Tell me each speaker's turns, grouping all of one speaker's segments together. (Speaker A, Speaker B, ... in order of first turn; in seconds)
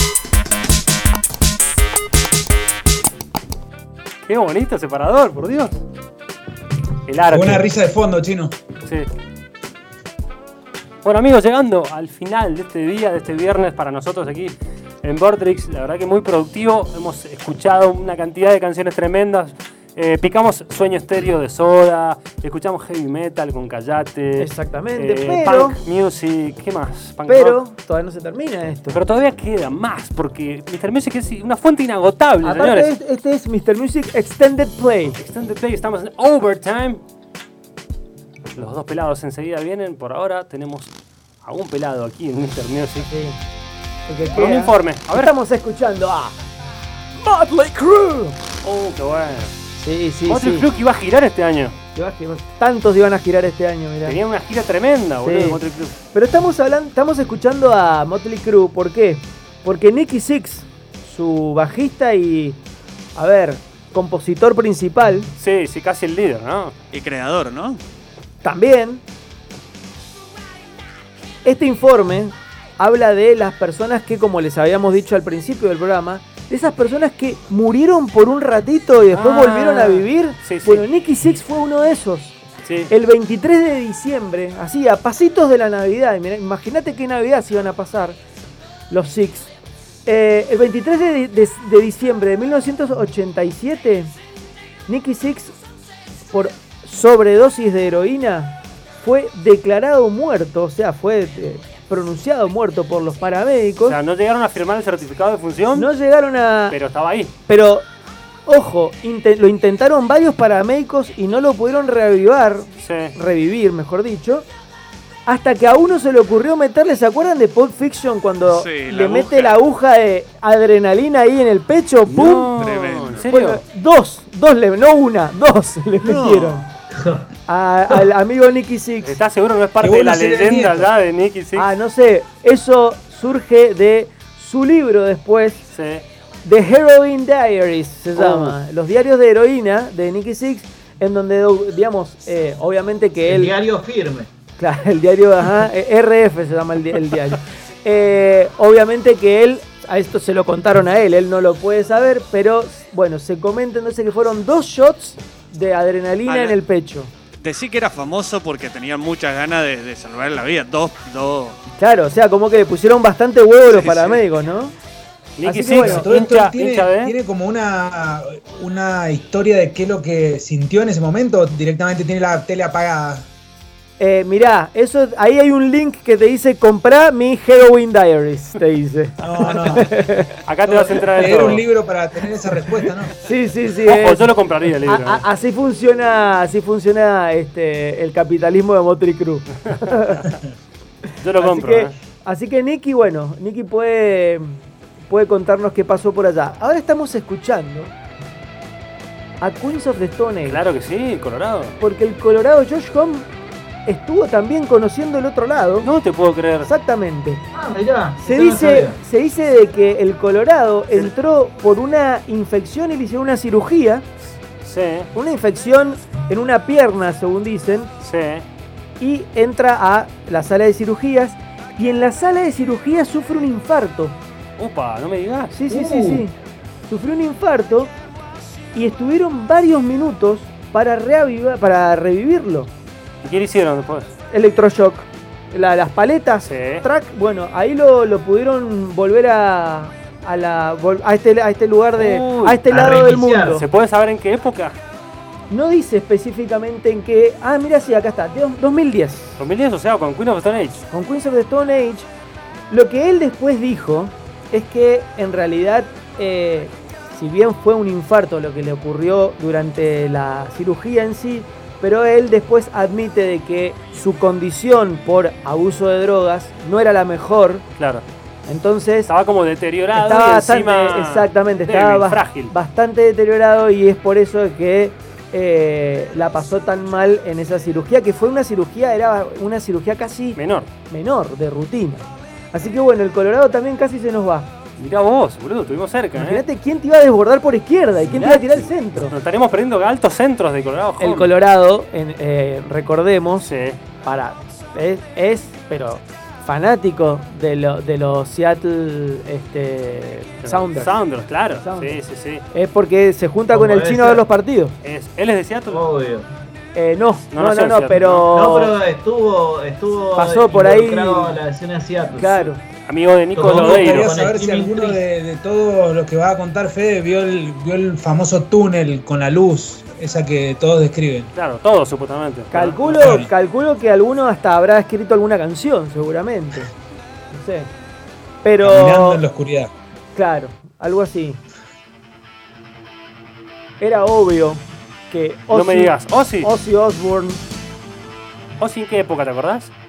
Speaker A: 4.2-5.8, 7.1-7.7, 11.0-27.6, 28.9-32.9, 35.1-37.0, 38.5-40.9, 41.4-43.1, 44.3-45.3, 48.6-49.5, 50.3-51.7, 54.0-55.9, 65.3-66.7, 79.1-80.8, 82.6-82.9, 103.8-105.9, 106.7-107.3, 112.8-113.1, 122.1-123.6, 129.0-131.7, 135.7-136.0, 138.2-138.6, 165.4-167.1, 180.4-181.6, 183.8-185.2, 191.2-191.9, 200.4-201.8, 205.8-206.7, 214.6-215.1, 218.0-218.4, 224.6-225.5, 233.2-234.1, 236.4-236.8, 241.9-242.7, 243.5-244.8, 249.4-250.8, 267.8-268.0, 269.1-272.5, 280.4-280.7, 284.8-286.4, 288.1-291.3, 293.4-293.8, 300.4-302.4, 304.8-305.8, 307.3-308.3, 312.9-314.1, 321.3-323.1, 335.5-336.5, 338.6-339.7
Speaker B: 7.2-8.5, 129.8-130.9, 165.7-173.3, 179.2-179.9, 180.6-183.1, 313.4-321.3, 323.0-323.3, 328.6-329.7
Speaker C: 24.4-25.8, 27.2-29.0, 32.4-35.2, 43.1-43.4, 44.1-46.3, 47.2-48.4, 49.8-50.6, 51.9-54.2, 55.2-55.6, 56.1-62.6, 63.1-65.3, 68.4-69.0, 71.4-82.3, 82.9-88.2, 88.9-89.5, 90.0-94.1, 94.9-95.5, 96.3-104.0, 105.7-106.8, 107.5-107.9, 108.5-114.5, 115.2-122.5, 123.3-126.7, 127.5-129.2, 131.5-135.6, 136.4-143.5, 144.6-157.1, 161.8-164.7, 165.4-166.1, 174.0-180.3, 183.1-184.3, 184.8-190.3, 191.4-197.9, 199.4-200.6, 201.8-203.3, 203.8-205.9, 206.6-207.4, 208.2-214.0, 215.1-217.9, 219.0-224.2, 225.5-226.3, 226.9-227.9, 228.7-232.7, 234.3-243.6, 245.5-249.4, 250.9-252.1, 252.7-267.6, 268.5-269.1, 269.9-280.4, 280.9-284.5, 286.1-289.1, 291.0-293.5, 294.0-300.9, 301.6-302.0, 302.5-304.8, 306.7-308.8, 310.1-311.4, 312.1-312.6, 322.5-326.7, 327.3-327.7, 328.4-329.2, 330.1-331.4, 333.8-337.4
Speaker D: 66.9-67.8, 118.4-119.5, 122.6-123.3, 126.0-126.6, 156.3-156.6, 157.4-161.6, 163.7-164.2
Speaker E: 126.9-127.2, 143.3-144.3, 207.5-209.0, 225.7-226.2, 242.7-243.6, 303.5-304.2, 305.7-306.3, 308.3-312.5, 313.3-315.0